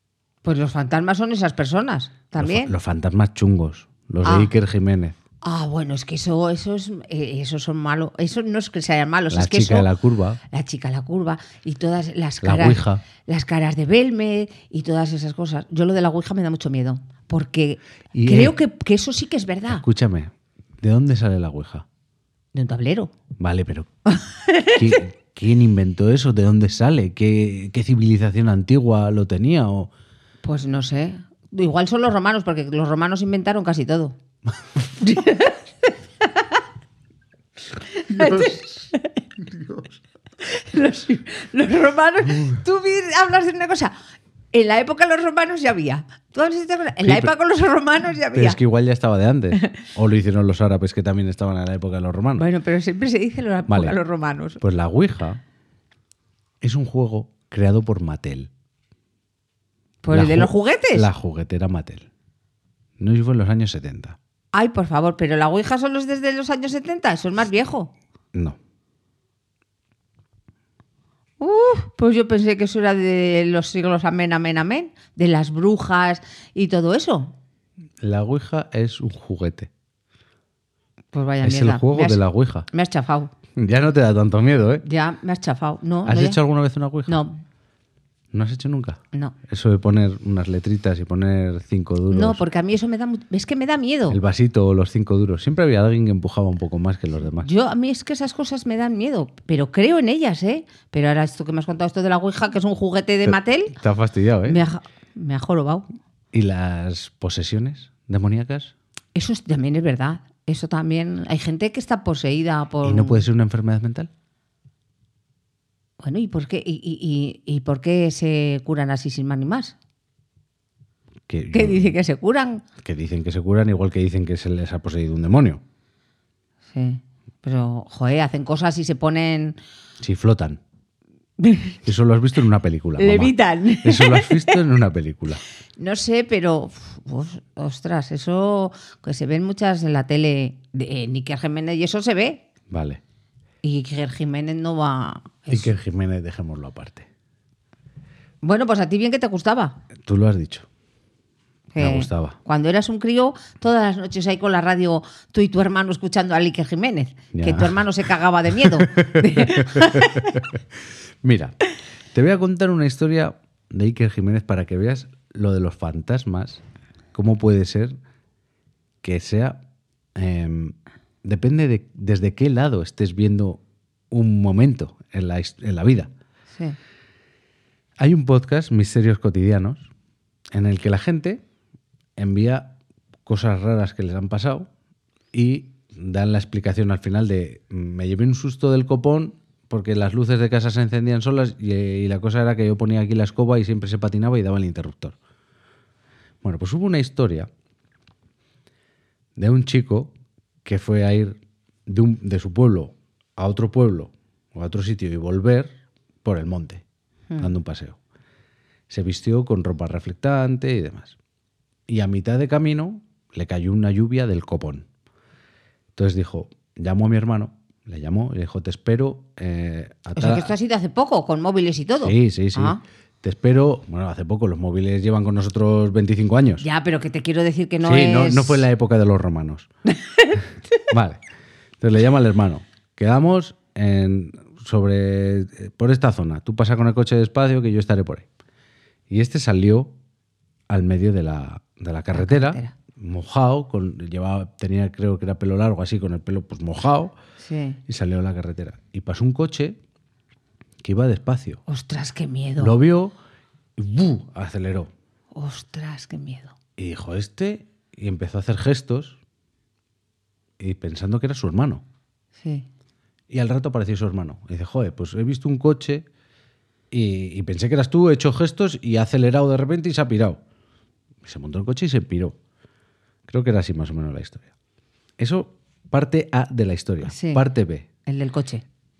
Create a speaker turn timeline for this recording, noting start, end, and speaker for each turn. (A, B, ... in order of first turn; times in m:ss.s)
0:00.4-0:02.7 A
0:02.4-0:05.2 B
0:04.2-0:04.5 A
0:05.4-0:09.9 A
0:09.3-0:10.4 B
0:10.5-0:19.8 A
0:12.4-0:13.0 B
0:18.1-0:18.5 B
0:19.7-0:21.8 B
0:22.5-0:23.1 A
0:23.4-0:23.9 B
0:24.1-0:25.0 A
0:24.7-0:29.9 B
0:30.4-0:34.2 A
0:34.9-0:36.6 A
0:37.8-0:39.2 A
0:38.1-0:38.6 B
0:40.4-0:43.9 A
0:44.5-0:48.6 A
0:47.0-0:47.3 B
0:48.3-0:52.4 B
0:52.4-0:54.6 A
0:53.7-0:54.0 B
0:54.6-0:55.4 B
0:56.6-0:58.5 B
1:00.0-1:01.1 A
1:00.1-1:02.1 B
1:03.0-1:04.2 B
1:04.5-1:07.9 A
1:11.4-1:17.3 A
1:18.0-1:19.7 B
1:21.1-1:23.3 A
1:21.4-1:22.7 B
1:23.6-1:24.8 B
1:24.8-1:26.4 A
1:26.0-1:27.2 B
1:27.1-1:27.4 A
1:28.3-1:32.4 B
1:32.1-1:34.2 A
1:34.1-1:37.5 B
1:37.4-1:43.8 A
1:43.2-1:44.6 B
1:44.4-1:45.8 A
1:46.3-1:48.7 B
1:49.1-1:53.2 A
1:52.8-1:54.1 B
1:56.0-1:59.8 A
2:01.3-2:01.9 B
2:01.5-2:02.6 A
2:02.8-2:05.6 B
2:06.7-2:09.6 A
2:10.0-2:10.6 B
2:11.4-2:11.8 A
2:11.8-2:15.4 B
2:13.0-2:14.6 A
2:15.8-2:22.4 A
2:22.7-2:23.0 B
2:23.6-2:25.7 A
2:25.5-2:27.1 B
2:28.4-2:29.8 A
2:30.0-2:30.7 B
2:31.7-2:40.4 A
2:31.8-2:32.4 B
2:37.3-2:37.8 B
2:38.5-2:40.6 B
2:41.2-2:41.6 B
2:42.1-2:46.6 B
2:47.1-2:47.9 B
2:49.0-2:49.6 B
2:50.1-2:56.1 B
2:58.0-2:59.9 B
3:00.5-3:01.4 B
3:02.2-3:02.7 B
3:03.2-3:04.7 B
3:05.3-3:15.2 B
3:16.4-3:17.5 B
3:19.4-3:20.1 B
3:20.6-3:26.8 B
3:27.4-3:28.0 B
3:28.9-3:31.2 B
3:31.9-3:34.9 B
3:35.9-3:40.5 B
3:40.2-3:42.8 A
3:42.0-3:46.6 B
3:46.6-3:48.7 A
3:47.8-3:49.7 B
3:49.9-3:50.4 A
3:50.9-3:51.2 B
3:51.8-3:58.2 B
3:59.1-3:59.9 B
4:00.7-4:07.1 B
4:02.1-4:02.8 A
4:07.4-4:07.8 A
4:07.9-4:09.8 B
4:10.8-4:11.6 B
4:11.7-4:12.7 A
4:12.6-4:13.2 B
4:13.8-4:14.9 B
4:15.3-4:16.5 A
4:16.8-4:19.2 B
4:20.6-4:21.8 B
4:22.4-4:22.7 A
4:23.3-4:26.0 B
4:26.9-4:30.4 B
4:31.2-4:32.4 B
4:33.3-4:34.5 B
4:35.2-4:37.9 B
4:37.0-4:37.4 A
4:38.0-4:38.6 A